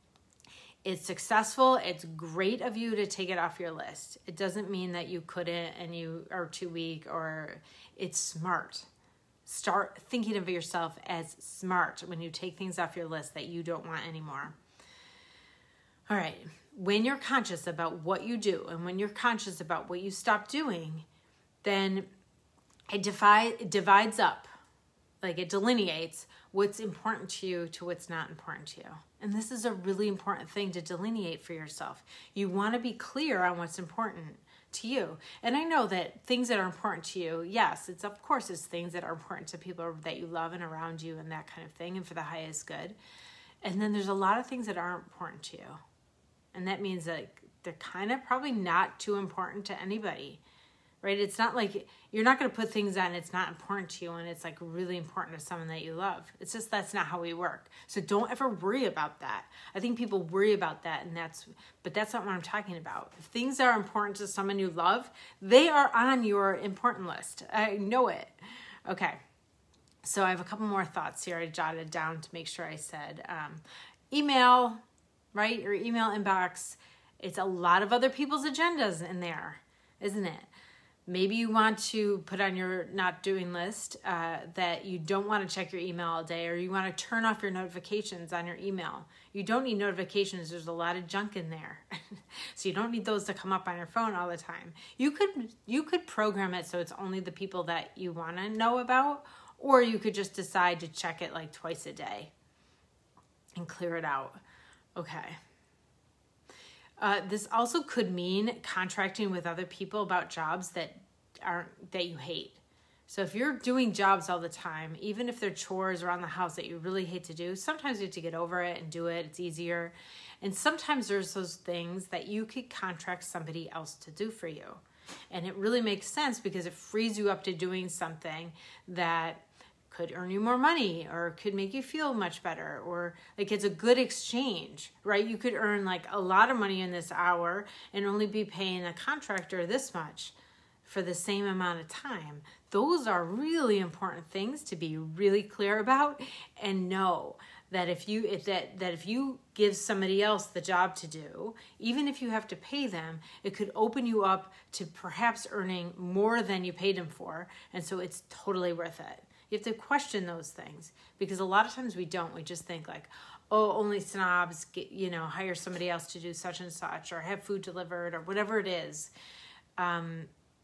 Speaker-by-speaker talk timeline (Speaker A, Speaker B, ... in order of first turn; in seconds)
Speaker A: 0.8-8.9, 9.4-14.6, 16.1-21.1, 21.6-22.1, 22.9-24.5, 25.2-43.0, 43.6-45.8, 46.5-50.4, 51.0-68.3, 68.8-69.2, 70.0-74.8, 75.3-80.5, 81.1-102.3, 103.5-104.4, 105.0-105.4, 107.0-169.1, 169.8-170.3